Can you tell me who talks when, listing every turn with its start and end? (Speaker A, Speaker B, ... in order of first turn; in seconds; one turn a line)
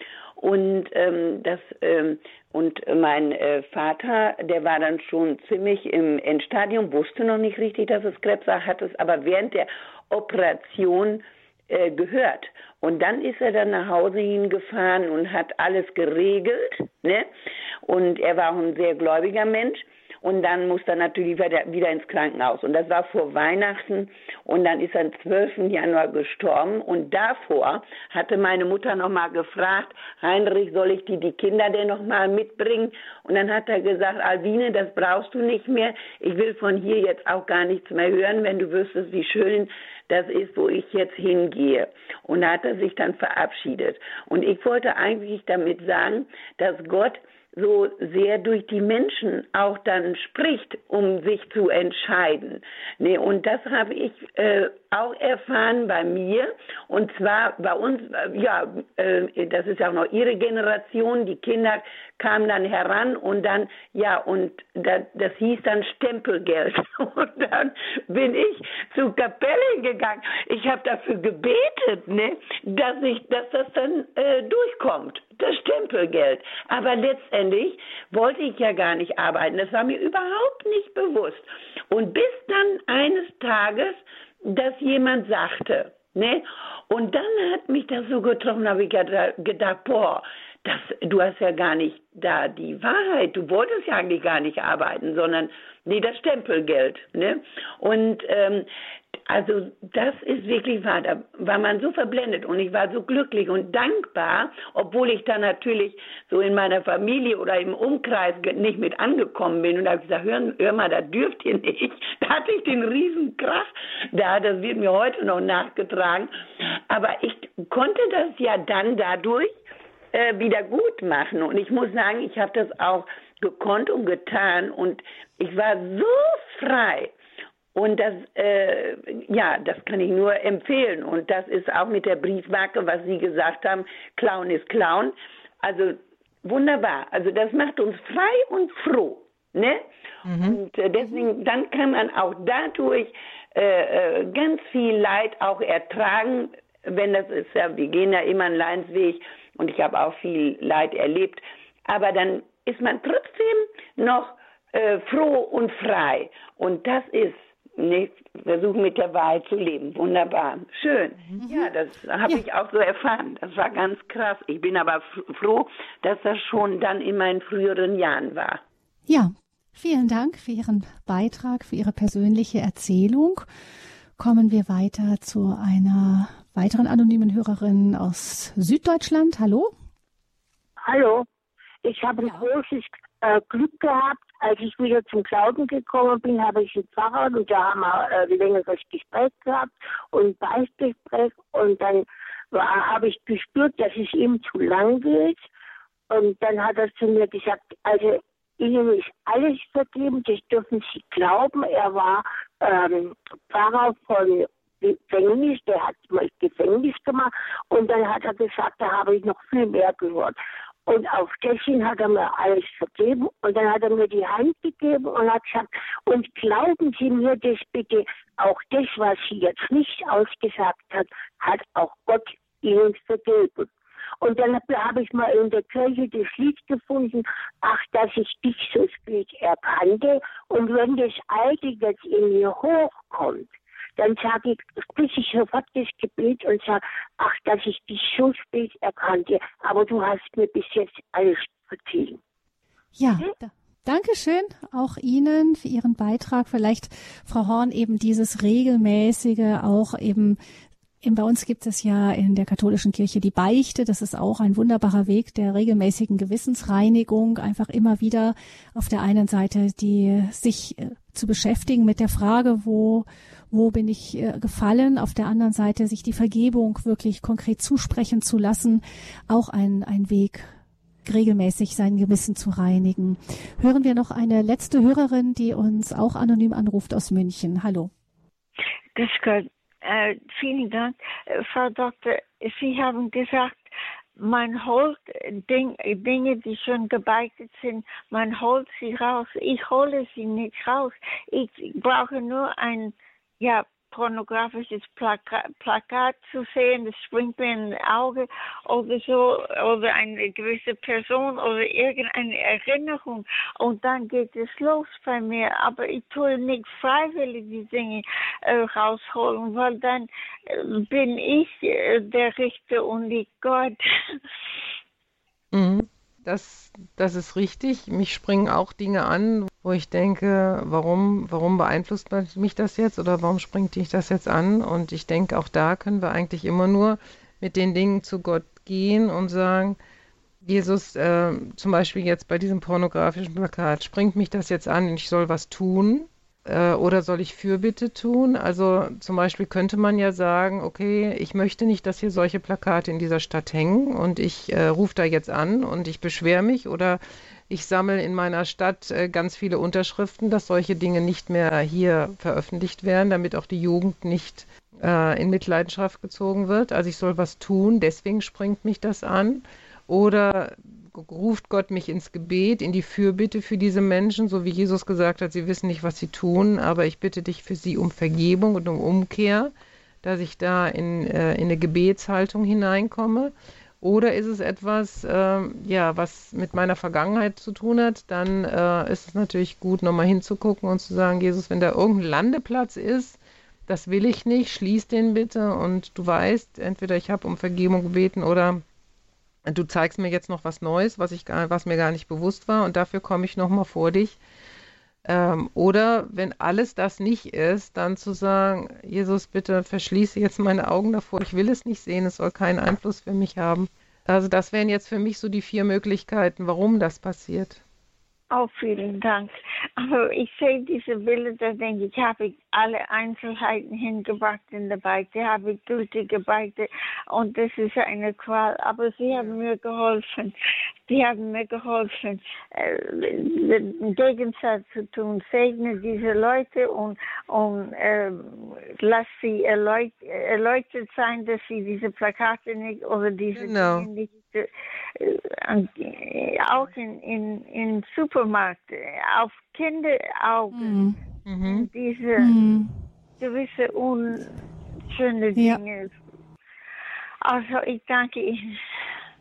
Speaker A: 0.4-17.3
Speaker A: 17.9-98.7
Speaker A: 99.3-116.3
Speaker A: 116.9-119.5
Speaker A: 120.1-127.1
Speaker A: 127.7-139.9
Speaker B: 140.3-140.6
Speaker A: 140.4-168.6
Speaker C: 161.4-161.7
Speaker C: 169.1-173.5
Speaker C: 174.2-179.7
Speaker D: 180.8-181.3
Speaker D: 181.8-195.4
Speaker C: 182.2-182.5
Speaker D: 196.1-223.7
Speaker D: 224.2-242.2
Speaker C: 243.0-250.4
Speaker C: 251.0-270.5
Speaker C: 271.1-277.9
Speaker E: 279.0-313.8
Speaker B: 315.5-329.8
Speaker B: 330.4-388.6
Speaker B: 389.5-394.2
Speaker B: 395.1-407.6
Speaker E: 408.3-420.3
Speaker E: 420.9-434.5
Speaker B: 433.4-433.9
Speaker E: 435.0-440.9
Speaker C: 440.5-441.0
Speaker B: 441.3-441.7
Speaker E: 441.4-442.3
Speaker C: 442.2-442.7
Speaker E: 443.2-444.4
Speaker E: 444.9-445.9
Speaker C: 445.4-445.6
Speaker E: 447.2-448.6